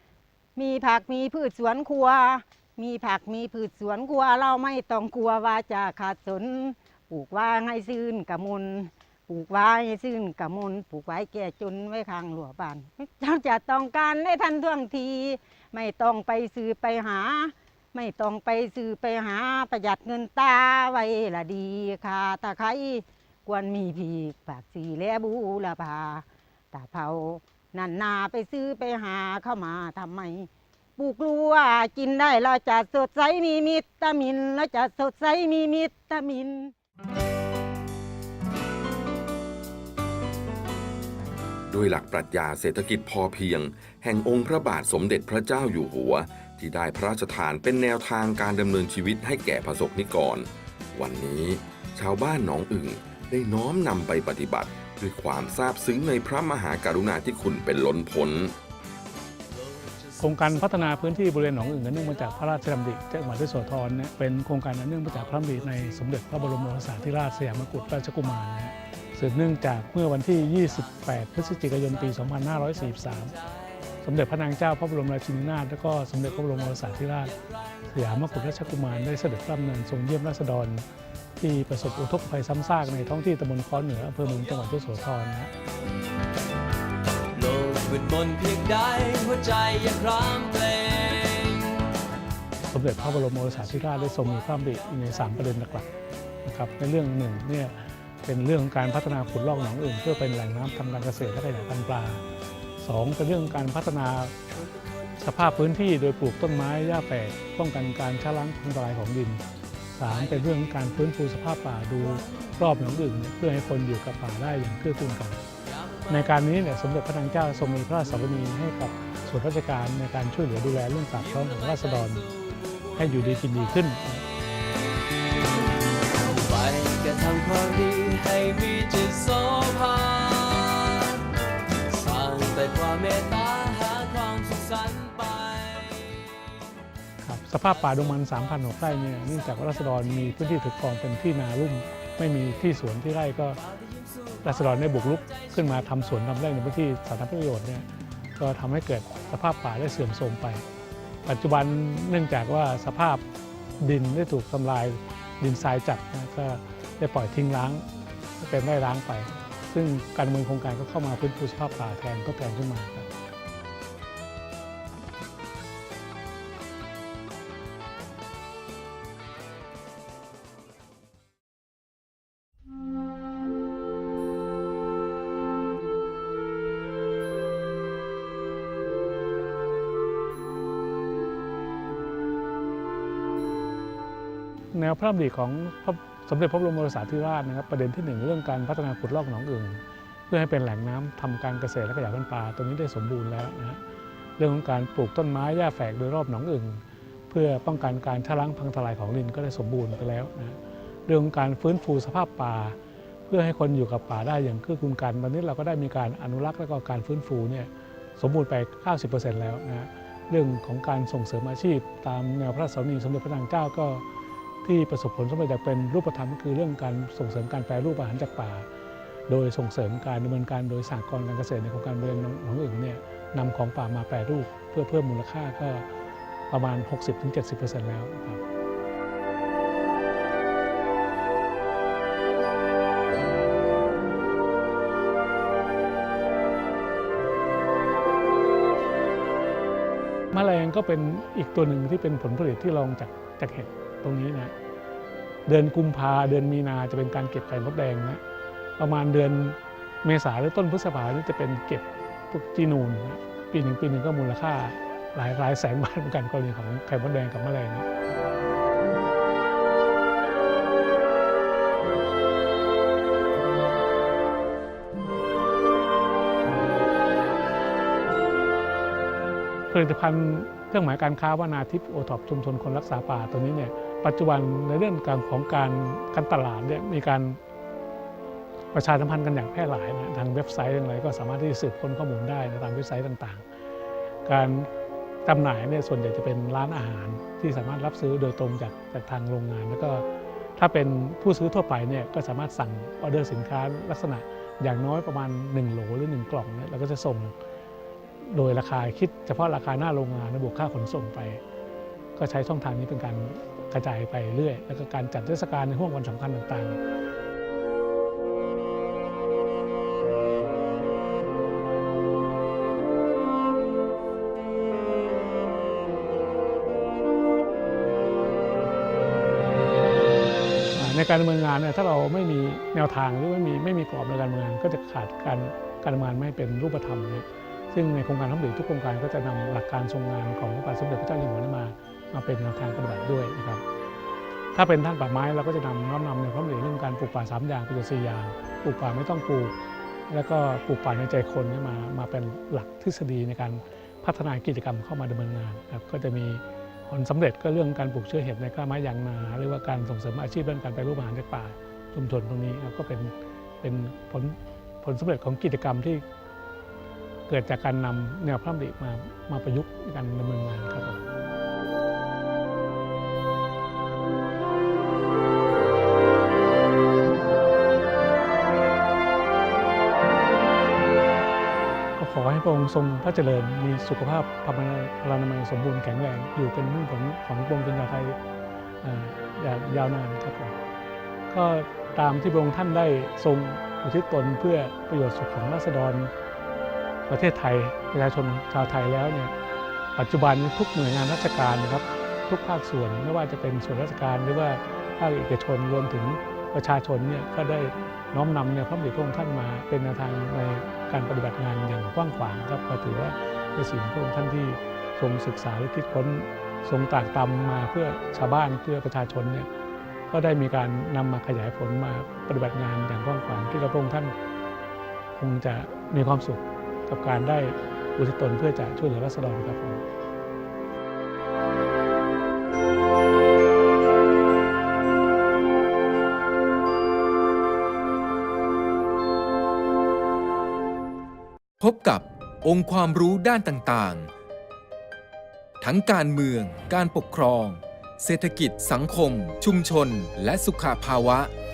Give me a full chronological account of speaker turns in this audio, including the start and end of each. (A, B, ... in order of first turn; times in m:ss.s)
0:00.6-0:36.7 A
0:41.7-0:58.6 B
0:59.5-1:00.7 C
1:00.2-1:13.4 D
1:11.2-1:13.6 C
1:14.0-1:17.3 D
1:17.3-1:17.9 C
1:17.9-1:20.8 D
1:21.4-1:25.5 D
1:27.4-1:31.9 C
1:32.7-1:35.9 D
1:36.4-1:42.2 D
1:42.8-1:44.3 D
1:44.7-1:45.2 C
1:45.2-1:49.4 D
1:50.0-1:55.4 D
1:55.7-1:56.1 C
1:56.1-2:02.3 D
2:01.5-2:02.8 C
2:03.0-2:04.2 D
2:04.6-2:05.1 C
2:06.3-2:11.2 C
2:11.9-2:16.2 C
2:17.2-2:23.6 D
2:24.0-2:24.4 C
2:24.4-2:27.9 D
2:28.4-2:30.6 D
2:31.2-2:33.2 D
2:33.8-2:37.8 D
2:38.4-2:43.1 D
3:04.7-3:13.8 D
3:14.4-3:22.8 D
3:23.3-3:34.0 D
3:34.6-3:38.7 D
3:39.3-3:45.8 D
3:46.5-3:48.4 D
4:00.3-4:04.5 D
4:05.5-4:08.2 D
4:08.8-4:17.9 D
4:29.7-4:37.4 D
4:38.7-4:43.4 D
4:44.3-4:44.7 D
4:45.3-4:50.0 D
4:50.6-4:57.3 D
4:58.3-5:01.4 D
5:02.2-5:06.8 D
5:20.8-5:33.6 D
5:34.6-5:39.5 D
5:40.1-5:56.0 D
5:57.3-6:01.1 D
6:12.0-6:18.2 D
6:18.8-6:20.6 D
6:21.3-6:26.1 D
6:27.1-6:29.3 D
6:30.0-6:49.5 D
6:50.1-6:54.1 D
6:55.2-6:59.8 D
7:11.6-7:14.1 E
7:15.6-7:21.3 E